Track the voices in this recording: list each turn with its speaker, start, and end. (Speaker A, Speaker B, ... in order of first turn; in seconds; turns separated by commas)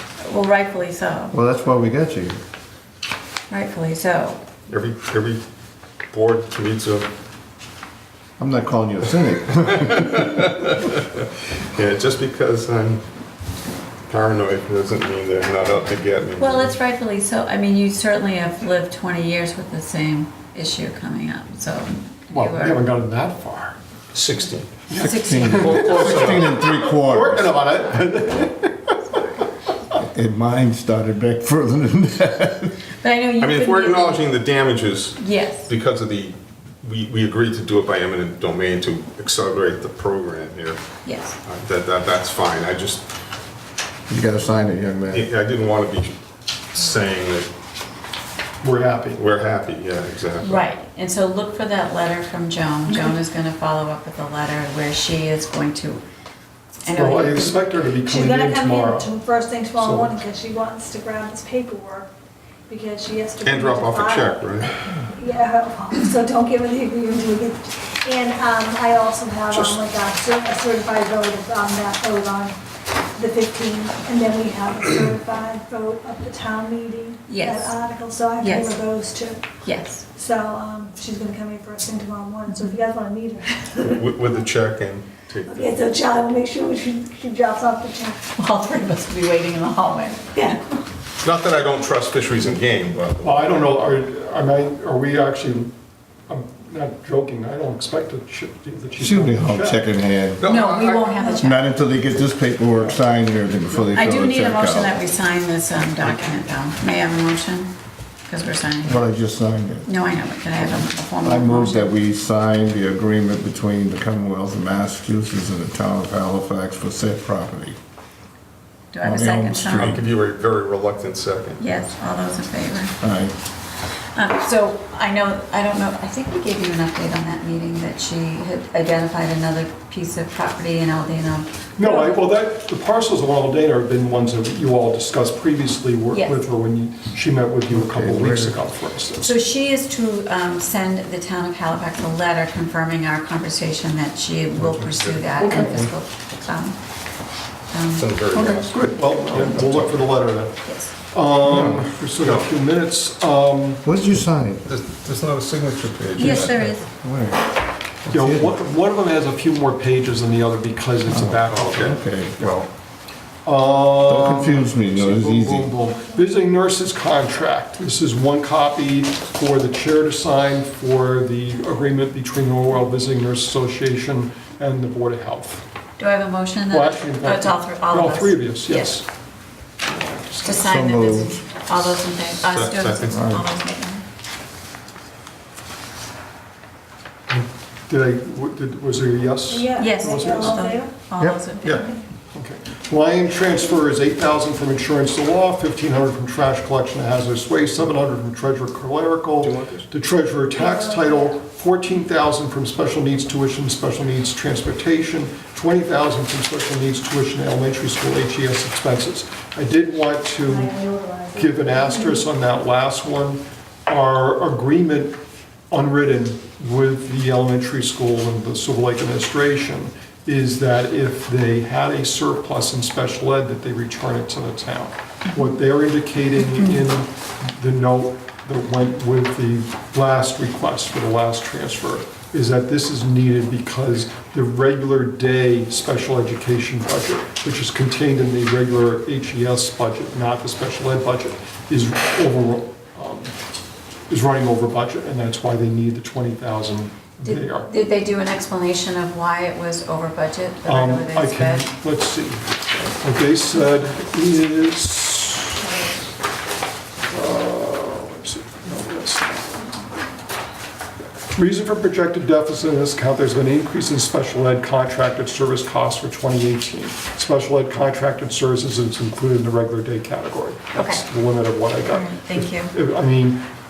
Speaker A: 0.2-1.3, Speaker B: 1.3-2.4, Speaker A: 3.5-4.4, Speaker C: 4.7-5.4, Speaker C: 6.1-7.1, Speaker B: 8.4-10.4, Speaker C: 9.8-13.0, Speaker C: 14.1-16.7, Speaker A: 16.4-22.8, Speaker D: 22.3-23.8, Speaker C: 24.1-24.7, Speaker D: 24.9-29.2, Speaker A: 24.9-26.1, Speaker B: 25.2-27.6, Speaker C: 25.5-26.5, Speaker B: 29.9-32.8, Speaker A: 33.0-34.3, Speaker C: 33.4-40.8, Speaker A: 35.2-35.7, Speaker A: 41.0-41.4, Speaker C: 41.4-43.0, Speaker B: 44.1-45.3, Speaker C: 45.1-46.1, Speaker C: 46.7-47.5, Speaker D: 48.6-49.2, Speaker C: 49.2-50.7, Speaker A: 50.4-56.0, Speaker A: 56.8-57.7, Speaker D: 56.9-59.2, Speaker E: 58.0-62.1, Speaker D: 59.8-60.2, Speaker E: 62.7-72.6, Speaker C: 63.4-64.9, Speaker C: 69.5-69.8, Speaker E: 73.2-79.5, Speaker A: 77.3-77.8, Speaker A: 78.4-78.8, Speaker A: 79.6-80.0, Speaker E: 80.1-84.2, Speaker C: 83.8-85.8, Speaker E: 85.5-88.2, Speaker A: 88.4-90.2, Speaker E: 90.3-90.6, Speaker C: 91.2-93.8, Speaker D: 93.2-95.7, Speaker D: 96.3-99.8, Speaker B: 99.0-100.4, Speaker C: 100.4-101.2, Speaker A: 100.4-101.7, Speaker B: 101.4-105.0, Speaker A: 103.9-107.7, Speaker A: 108.3-109.0, Speaker B: 108.8-109.9, Speaker A: 109.8-111.9, Speaker B: 110.7-117.8, Speaker A: 118.9-120.0, Speaker B: 119.0-120.0, Speaker C: 119.6-121.6, Speaker A: 121.6-122.9, Speaker B: 123.0-123.3, Speaker A: 124.2-132.2, Speaker D: 131.8-139.4, Speaker A: 136.1-136.4, Speaker B: 137.7-138.6, Speaker A: 139.2-146.8, Speaker C: 144.6-145.3, Speaker D: 145.4-145.9, Speaker A: 147.7-148.6, Speaker C: 147.9-149.9, Speaker D: 148.4-153.8, Speaker A: 149.3-150.0, Speaker A: 150.7-150.9, Speaker B: 151.4-151.9, Speaker C: 152.2-152.5, Speaker B: 153.8-154.7, Speaker C: 154.7-156.8, Speaker A: 156.2-156.9, Speaker B: 156.2-158.5, Speaker D: 158.1-162.6, Speaker B: 161.1-162.6, Speaker C: 161.5-162.0, Speaker D: 163.4-175.6, Speaker B: 164.1-165.7, Speaker A: 176.0-179.0, Speaker D: 176.7-179.1, Speaker D: 179.8-180.7, Speaker A: 180.4-184.0, Speaker B: 180.6-181.4, Speaker C: 182.5-183.3, Speaker B: 183.1-183.5, Speaker D: 187.3-190.7, Speaker E: 189.5-191.0, Speaker A: 189.8-191.9, Speaker E: 191.6-192.1, Speaker D: 192.3-210.7, Speaker C: 199.4-199.9, Speaker E: 200.5-201.4, Speaker E: 210.4-212.3, Speaker D: 211.4-215.2, Speaker D: 215.7-243.3, Speaker D: 244.1-247.7, Speaker A: 247.2-251.7, Speaker D: 250.7-255.6, Speaker D: 257.1-259.9, Speaker D: 261.4-273.4, Speaker A: 270.7-271.0, Speaker A: 271.9-272.7